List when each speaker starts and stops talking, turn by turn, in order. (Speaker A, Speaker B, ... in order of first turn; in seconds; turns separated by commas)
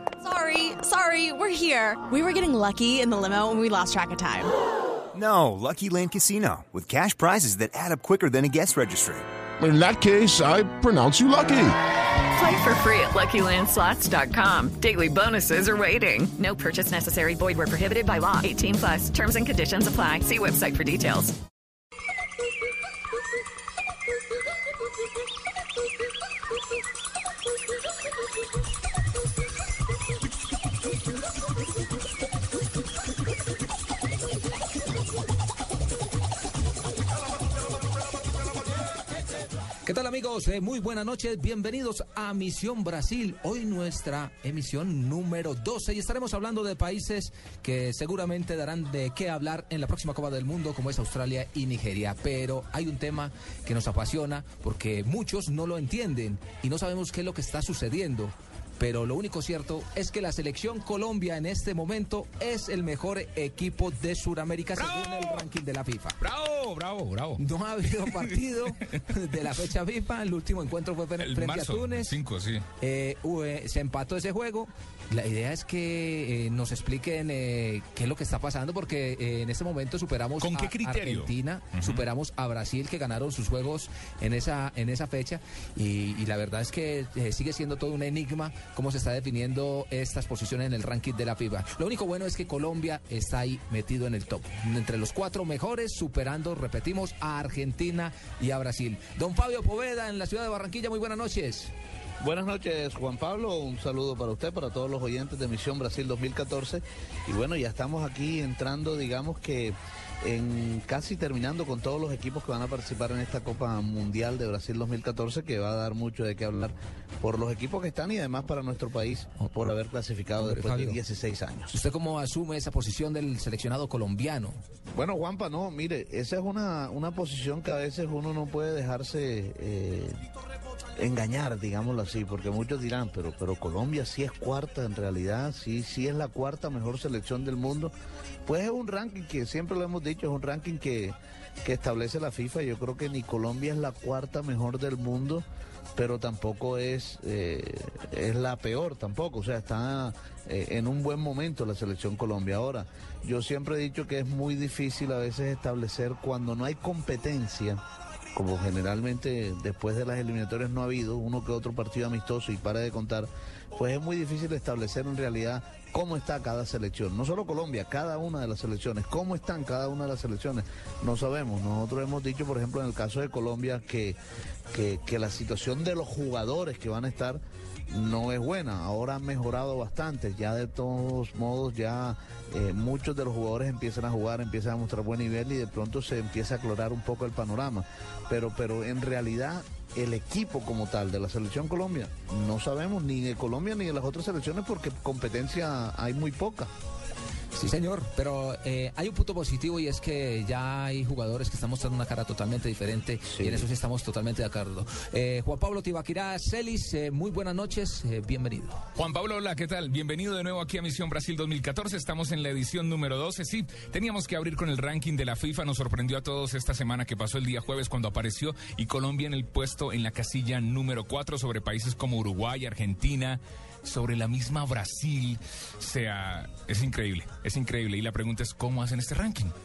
Speaker A: 0.2-4.5, Speaker B: 5.1-9.2, Speaker C: 9.6-11.6, Speaker D: 12.3-21.3, Speaker E: 39.9-66.2, Speaker F: 64.8-65.4, Speaker F: 66.2-67.4, Speaker E: 67.4-72.2, Speaker F: 71.2-72.7, Speaker E: 72.8-101.7, Speaker F: 80.4-82.1, Speaker G: 102.2-121.8, Speaker E: 119.4-119.7, Speaker E: 120.4-121.0, Speaker E: 121.7-124.6, Speaker G: 124.9-130.2, Speaker G: 131.0-137.9, Speaker G: 138.4-145.4, Speaker G: 145.9-157.8, Speaker G: 158.3-174.2, Speaker G: 174.7-196.7, Speaker E: 197.5-208.8, Speaker G: 203.3-203.7, Speaker F: 208.9-229.5